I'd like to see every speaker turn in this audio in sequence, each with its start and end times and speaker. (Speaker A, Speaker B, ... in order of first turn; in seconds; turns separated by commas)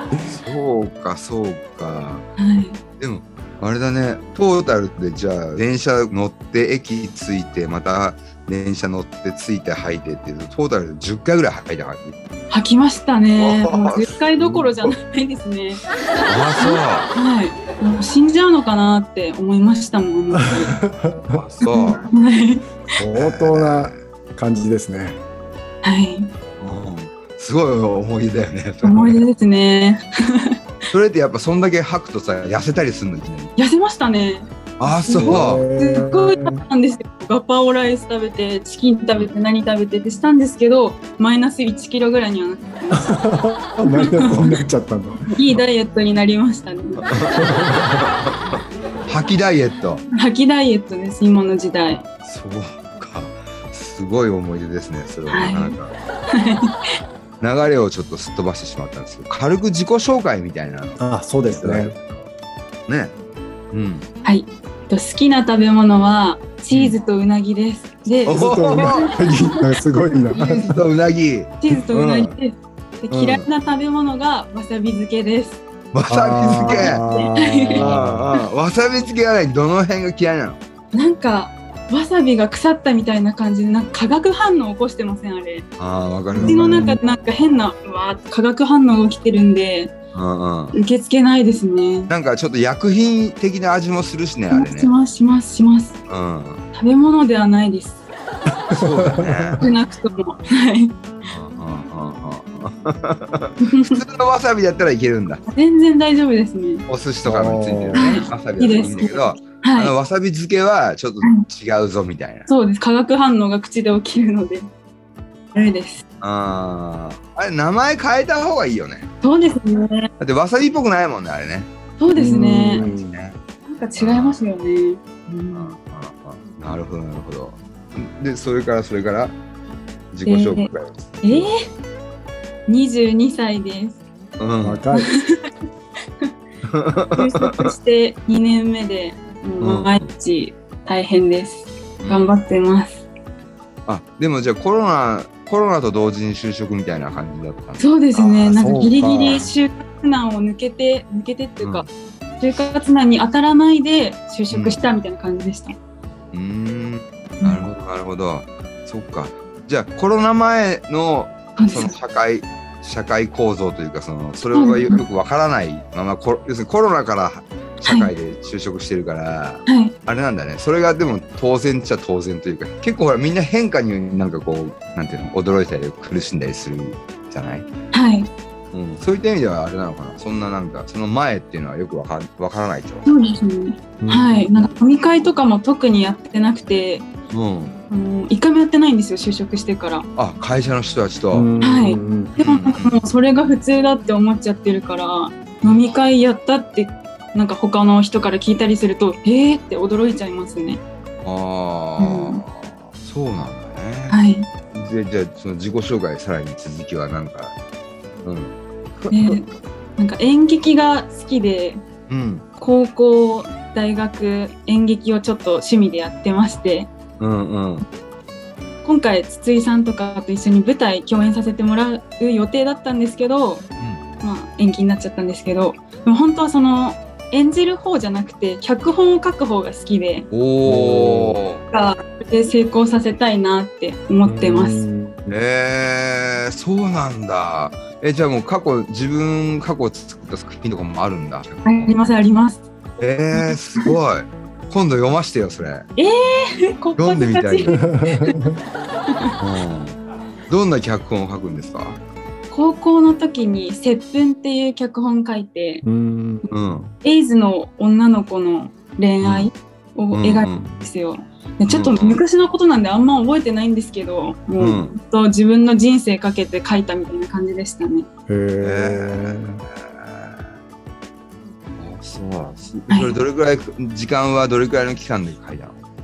Speaker A: 0.3-2.3, Speaker B: 2.4-2.8, Speaker A: 3.0-12.2, Speaker B: 12.5-15.8, Speaker A: 13.4-14.9, Speaker A: 16.2-17.1, Speaker B: 16.6-20.8, Speaker C: 20.8-21.4, Speaker A: 21.3-22.1, Speaker B: 21.6-22.7, Speaker C: 23.0-25.2, Speaker A: 23.1-24.0, Speaker B: 25.8-26.3, Speaker A: 26.6-29.2, Speaker B: 28.8-30.6, Speaker A: 30.9-33.5, Speaker B: 33.6-43.3, Speaker A: 34.8-35.6, Speaker C: 35.1-36.6, Speaker C: 43.0-45.3, Speaker B: 43.9-44.5, Speaker B: 45.3-47.1, Speaker A: 47.0-50.0, Speaker C: 47.5-47.9, Speaker B: 50.1-52.0, Speaker A: 52.2-55.9, Speaker B: 55.3-55.8, Speaker B: 56.3-56.7, Speaker A: 57.4-61.0, Speaker C: 61.0-62.0, Speaker A: 61.5-62.3, Speaker A: 62.9-63.1, Speaker A: 63.7-64.1, Speaker B: 64.2-69.5, Speaker A: 66.7-67.0, Speaker A: 68.2-69.1, Speaker C: 68.3-70.7, Speaker A: 70.3-72.3, Speaker B: 71.6-75.6, Speaker A: 73.1-73.5, Speaker A: 75.9-77.0, Speaker C: 76.1-78.3, Speaker B: 76.7-77.8, Speaker A: 77.8-80.6, Speaker B: 80.9-85.7, Speaker A: 85.8-86.9, Speaker C: 86.3-87.0, Speaker B: 86.5-89.9, Speaker A: 90.1-90.8, Speaker B: 90.7-92.1, Speaker A: 92.1-94.9, Speaker B: 94.5-96.0, Speaker A: 96.1-96.6, Speaker B: 96.7-98.0, Speaker C: 98.7-99.6, Speaker A: 98.7-99.7, Speaker B: 99.6-101.0, Speaker A: 101.2-105.4, Speaker B: 103.6-104.0, Speaker B: 105.5-106.8, Speaker A: 106.9-112.5, Speaker C: 107.2-108.3, Speaker B: 108.0-109.9, Speaker B: 112.5-114.7, Speaker B: 115.5-116.0, Speaker A: 116.2-119.1, Speaker B: 119.2-120.1, Speaker A: 120.2-121.7, Speaker B: 122.0-122.9, Speaker C: 122.2-123.2, Speaker A: 122.8-123.4, Speaker B: 123.7-125.8, Speaker A: 124.0-124.4, Speaker A: 125.5-129.4, Speaker A: 130.1-131.5, Speaker B: 130.3-130.7, Speaker B: 131.2-131.5, Speaker B: 132.7-134.0, Speaker A: 134.4-134.8, Speaker C: 134.6-135.1, Speaker B: 134.9-135.4, Speaker A: 136.7-137.7, Speaker B: 137.2-143.1, Speaker A: 139.6-140.1, Speaker A: 142.0-142.3, Speaker A: 143.9-149.5, Speaker B: 147.8-151.9, Speaker C: 148.6-149.2, Speaker A: 151.6-151.9, Speaker B: 152.4-155.8, Speaker A: 154.5-154.8, Speaker A: 156.3-177.7, Speaker B: 157.4-157.7, Speaker B: 161.6-162.0, Speaker B: 164.5-165.0, Speaker B: 169.7-169.9, Speaker B: 177.9-178.3, Speaker A: 178.7-183.1, Speaker B: 183.1-187.1, Speaker C: 184.0-184.5, Speaker A: 187.3-187.8, Speaker B: 187.9-190.1, Speaker A: 190.2-191.5, Speaker C: 191.3-192.4, Speaker B: 191.6-200.8, Speaker A: 192.4-192.9, Speaker A: 195.7-195.9, Speaker A: 201.2-204.2, Speaker B: 202.0-202.4, Speaker B: 204.1-204.5, Speaker A: 204.7-207.6, Speaker A: 208.2-209.4, Speaker B: 209.1-211.8, Speaker A: 212.1-212.4, Speaker B: 212.6-216.9, Speaker A: 217.2-217.8, Speaker B: 218.8-223.7, Speaker B: 224.2-230.3, Speaker A: 230.3-231.6, Speaker C: 230.7-231.4, Speaker B: 231.7-234.8, Speaker C: 234.2-235.3, Speaker A: 235.3-242.0, Speaker B: 241.7-242.6, Speaker A: 243.0-245.9, Speaker B: 243.3-243.9, Speaker B: 246.0-248.4, Speaker A: 247.0-247.9, Speaker C: 247.7-248.6, Speaker A: 249.4-252.0, Speaker B: 252.5-255.8, Speaker C: 255.8-256.5, Speaker A: 256.5-256.9, Speaker B: 257.0-268.1, Speaker A: 259.2-259.5, Speaker A: 260.1-260.9, Speaker A: 261.7-262.2, Speaker A: 264.6-264.9, Speaker C: 268.3-269.6, Speaker A: 268.6-270.5, Speaker A: 271.8-275.8, Speaker B: 272.9-273.2